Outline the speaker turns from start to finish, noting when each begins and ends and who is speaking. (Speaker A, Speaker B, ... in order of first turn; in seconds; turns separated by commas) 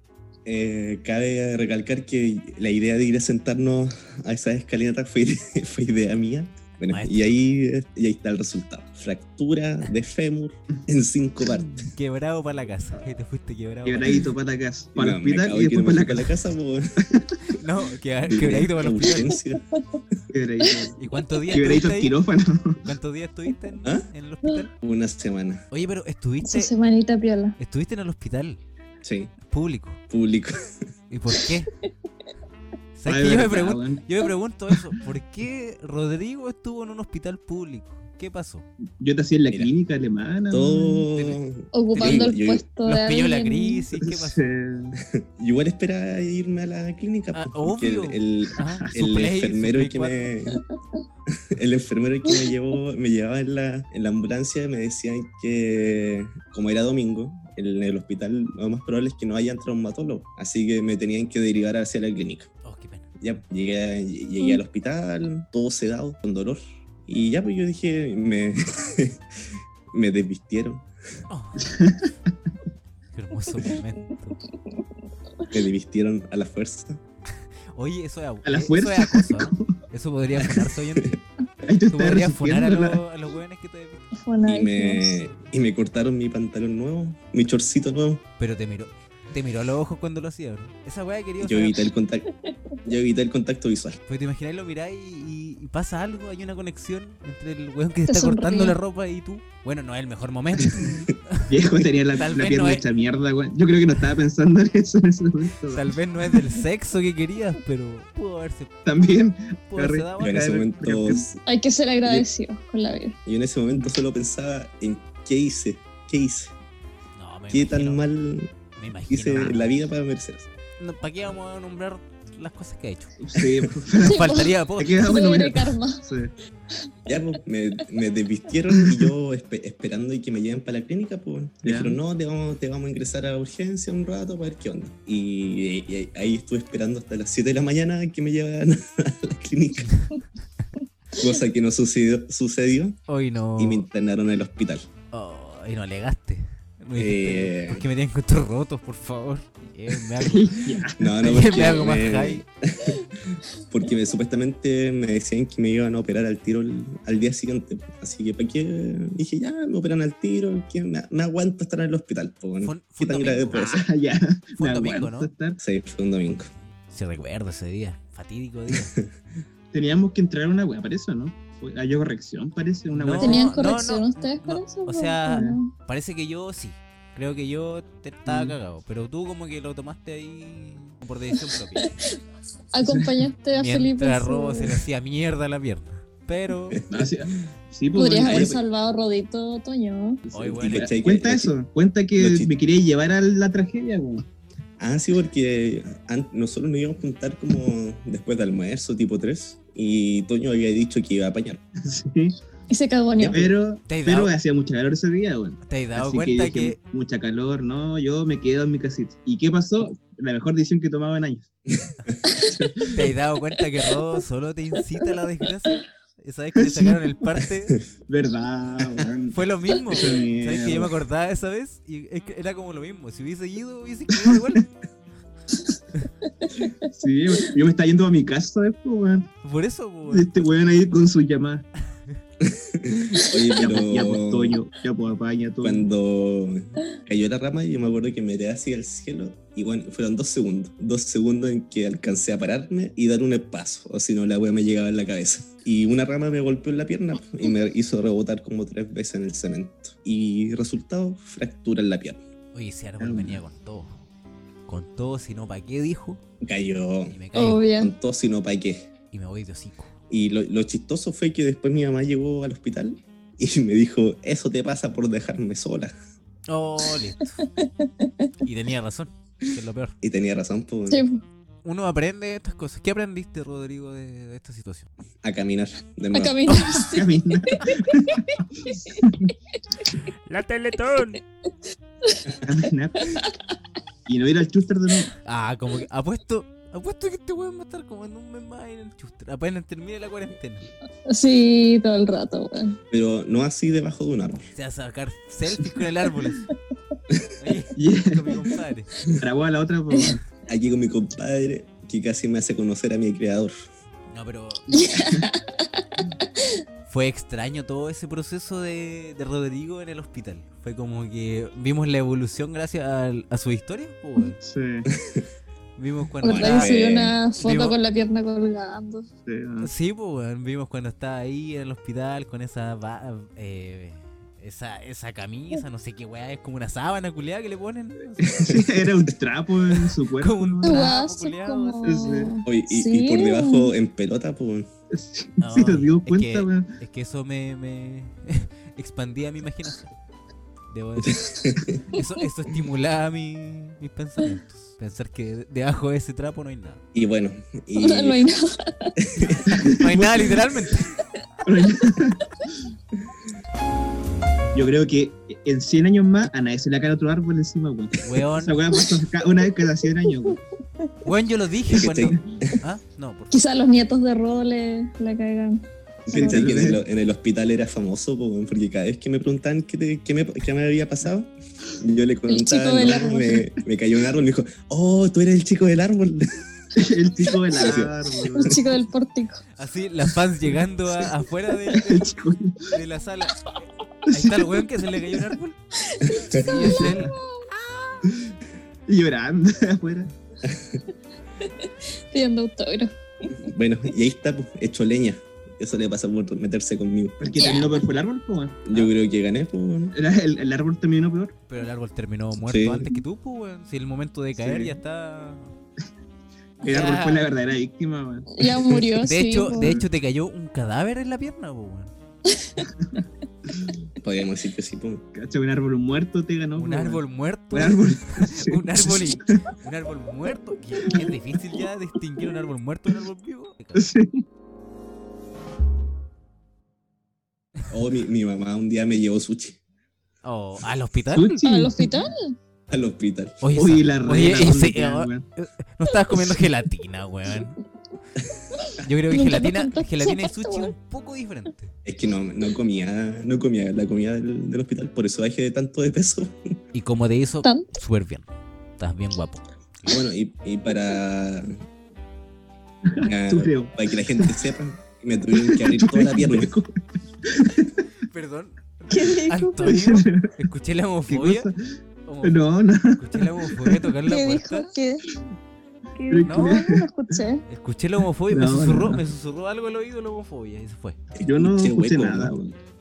Speaker A: 0.5-11.8, Speaker B: 6.9-7.3, Speaker B: 11.9-14.3, Speaker C: 13.8-16.3, Speaker A: 15.0-16.9, Speaker C: 17.0-17.4, Speaker B: 17.5-19.4, Speaker A: 18.2-19.7, Speaker C: 20.3-21.0, Speaker B: 21.0-22.1, Speaker C: 21.5-22.8, Speaker B: 22.8-24.7, Speaker A: 24.8-25.6, Speaker B: 25.7-26.7, Speaker D: 26.4-27.6, Speaker B: 27.6-28.6, Speaker A: 29.0-29.3, Speaker B: 29.5-30.0, Speaker A: 30.1-30.6, Speaker B: 31.1-31.7, Speaker B: 33.0-38.7, Speaker C: 33.1-34.0, Speaker C: 39.0-41.0, Speaker A: 40.5-42.6, Speaker B: 41.1-41.4, Speaker D: 41.7-43.8, Speaker B: 42.8-44.5, Speaker C: 44.0-45.0, Speaker A: 45.0-50.6, Speaker B: 47.3-50.3, Speaker A: 51.5-62.5, Speaker B: 62.6-63.1, Speaker A: 63.2-70.9, Speaker B: 71.3-71.8, Speaker C: 71.6-72.1, Speaker B: 73.1-74.4, Speaker A: 75.5-77.0, Speaker B: 77.7-81.2, Speaker C: 78.5-79.8, Speaker C: 81.6-83.0, Speaker B: 81.9-84.1, Speaker D: 84.2-85.2, Speaker A: 84.5-88.2, Speaker B: 88.4-91.8, Speaker A: 91.4-92.3, Speaker A: 92.8-94.0, Speaker B: 94.1-101.5, Speaker D: 98.1-98.8, Speaker A: 100.8-101.1, Speaker C: 101.5-106.4, Speaker B: 102.1-102.8, Speaker B: 105.7-108.7, Speaker C: 108.8-111.2, Speaker B: 109.7-110.5, Speaker A: 110.2-111.4, Speaker D: 111.5-113.2, Speaker A: 113.3-116.5, Speaker B: 117.2-118.0, Speaker A: 117.5-118.5, Speaker B: 118.8-119.7, Speaker A: 119.1-120.5, Speaker B: 120.8-123.2, Speaker C: 123.2-126.3, Speaker D: 124.0-126.1, Speaker B: 124.1-125.1, Speaker A: 127.1-140.1, Speaker C: 131.6-132.0, Speaker A: 141.1-143.0, Speaker B: 143.1-143.8, Speaker A: 143.6-144.9, Speaker B: 145.1-152.4, Speaker A: 147.0-147.8, Speaker C: 150.2-151.1, Speaker A: 151.0-163.8, Speaker B: 162.6-163.8, Speaker C: 163.6-165.6, Speaker B: 164.6-165.3, Speaker A: 165.6-166.5, Speaker B: 166.9-169.0, Speaker A: 168.7-169.1, Speaker C: 169.7-173.7, Speaker B: 172.9-181.9, Speaker D: 173.2-175.7, Speaker C: 175.3-175.6, Speaker C: 178.2-178.6, Speaker D: 181.8-182.2, Speaker D: 182.7-184.8, Speaker C: 182.8-183.2, Speaker B: 183.5-186.8, Speaker A: 186.7-187.3, Speaker C: 186.9-188.6, Speaker D: 187.9-190.2, Speaker A: 188.2-188.6, Speaker B: 190.3-191.0, Speaker C: 190.3-194.2, Speaker A: 190.5-191.5, Speaker A: 192.2-192.5, Speaker A: 194.8-201.6, Speaker C: 201.8-202.4, Speaker D: 202.7-203.4, Speaker A: 203.2-203.5, Speaker C: 203.2-211.5, Speaker B: 203.9-204.3, Speaker B: 205.7-206.8, Speaker C: 212.4-213.1, Speaker B: 212.9-217.8, Speaker C: 216.6-217.0, Speaker C: 218.1-220.9, Speaker B: 219.3-224.7, Speaker C: 224.2-224.4, Speaker C: 226.9-229.3, Speaker B: 229.4-230.5, Speaker C: 230.1-231.7, Speaker A: 232.4-234.6, Speaker C: 233.6-235.9, Speaker A: 235.6-252.2, Speaker B: 252.5-253.9, Speaker C: 253.0-253.4, Speaker B: 254.7-256.2, Speaker A: 256.4-257.2, Speaker B: 257.1-257.7, Speaker D: 257.3-257.9, Speaker A: 257.7-258.9, Speaker B: 259.1-259.9, Speaker A: 260.1-265.9, Speaker B: 266.5-267.5, Speaker D: 267.4-268.3, Speaker B: 268.4-269.9, Speaker A: 270.0-271.0, Speaker D: 270.9-271.2, Speaker B: 271.6-274.9, Speaker A: 275.2-276.6, Speaker D: 276.1-278.4, Speaker C: 276.7-279.3, Speaker B: 280.3-281.2, Speaker C: 282.4-283.2, Speaker C: 284.1-285.1, Speaker B: 285.2-290.7, Speaker D: 291.1-292.8, Speaker A: 292.9-294.5, Speaker B: 294.6-296.5, Speaker B: 297.4-298.9, Speaker C: 297.8-298.5, Speaker C: 299.2-300.2, Speaker A: 300.5-303.6, Speaker B: 304.1-304.7, Speaker D: 304.7-305.8, Speaker C: 305.0-305.3, Speaker B: 306.9-314.4, Speaker C: 314.4-314.9, Speaker A: 314.9-315.3, Speaker B: 315.8-316.8, Speaker D: 316.2-319.1, Speaker A: 316.2-317.2, Speaker B: 317.4-317.8, Speaker C: 319.3-319.7, Speaker B: 319.6-328.5, Speaker C: 328.2-330.9, Speaker A: 328.5-329.1, Speaker B: 330.2-331.9, Speaker D: 330.6-333.7, Speaker C: 331.8-332.4, Speaker A: 332.5-334.7, Speaker C: 334.9-336.7, Speaker B: 335.4-339.9, Speaker B: 340.7-341.3, Speaker A: 341.0-341.8, Speaker B: 341.9-346.8, Speaker A: 346.9-348.2, Speaker D: 347.8-348.9, Speaker A: 349.0-350.4, Speaker B: 349.2-350.9, Speaker C: 351.4-352.3, Speaker C: 354.5-360.4, Speaker B: 358.0-358.6, Speaker D: 358.7-359.0, Speaker D: 360.1-360.9, Speaker B: 361.0-363.5, Speaker A: 361.7-362.6, Speaker D: 363.3-366.5, Speaker A: 366.1-376.4, Speaker C: 366.1-366.8, Speaker D: 372.3-373.5, Speaker C: 376.8-378.6, Speaker A: 377.5-378.6, Speaker D: 378.3-379.4, Speaker B: 379.6-382.1, Speaker C: 381.7-382.8, Speaker B: 382.7-383.5, Speaker C: 384.1-384.5, Speaker B: 384.1-385.6, Speaker D: 385.8-387.5, Speaker A: 386.1-386.5, Speaker B: 386.3-387.2, Speaker C: 386.5-387.1, Speaker C: 388.1-388.4, Speaker C: 388.9-390.1, Speaker A: 390.4-390.8, Speaker D: 391.4-393.4, Speaker A: 393.3-397.6, Speaker C: 397.2-398.9, Speaker D: 397.4-397.8, Speaker A: 398.7-399.9, Speaker C: 399.9-401.4, Speaker B: 401.5-405.5, Speaker A: 402.4-402.9, Speaker C: 404.4-404.8, Speaker C: 406.6-408.3, Speaker B: 406.6-407.3, Speaker D: 408.3-409.8, Speaker B: 409.0-411.9, Speaker D: 412.3-412.6, Speaker C: 412.6-413.8, Speaker A: 414.0-415.0, Speaker C: 415.1-419.5, Speaker B: 416.6-423.9, Speaker C: 420.8-421.1, Speaker C: 423.8-424.2, Speaker A: 427.7-429.6, Speaker B: 430.2-431.4, Speaker C: 431.1-432.1, Speaker D: 431.4-432.4, Speaker A: 432.7-433.4, Speaker B: 433.4-437.6, Speaker C: 433.6-435.2, Speaker D: 438.6-440.7, Speaker B: 438.8-441.7, Speaker A: 441.9-446.6, Speaker B: 446.7-448.3, Speaker B: 448.8-450.0, Speaker A: 449.9-451.6, Speaker C: 452.9-454.4, Speaker A: 453.0-456.5, Speaker C: 455.3-457.9, Speaker B: 458.1-461.5, Speaker D: 458.9-459.7, Speaker C: 459.6-460.3, Speaker C: 461.1-461.6, Speaker B: 462.1-462.4, Speaker C: 462.2-463.9, Speaker B: 462.9-464.7, Speaker D: 464.1-465.1, Speaker D: 466.0-467.4, Speaker C: 466.1-467.2, Speaker B: 466.3-466.6, Speaker B: 467.5-471.0, Speaker C: 468.3-469.0, Speaker A: 471.1-472.4, Speaker C: 471.2-472.6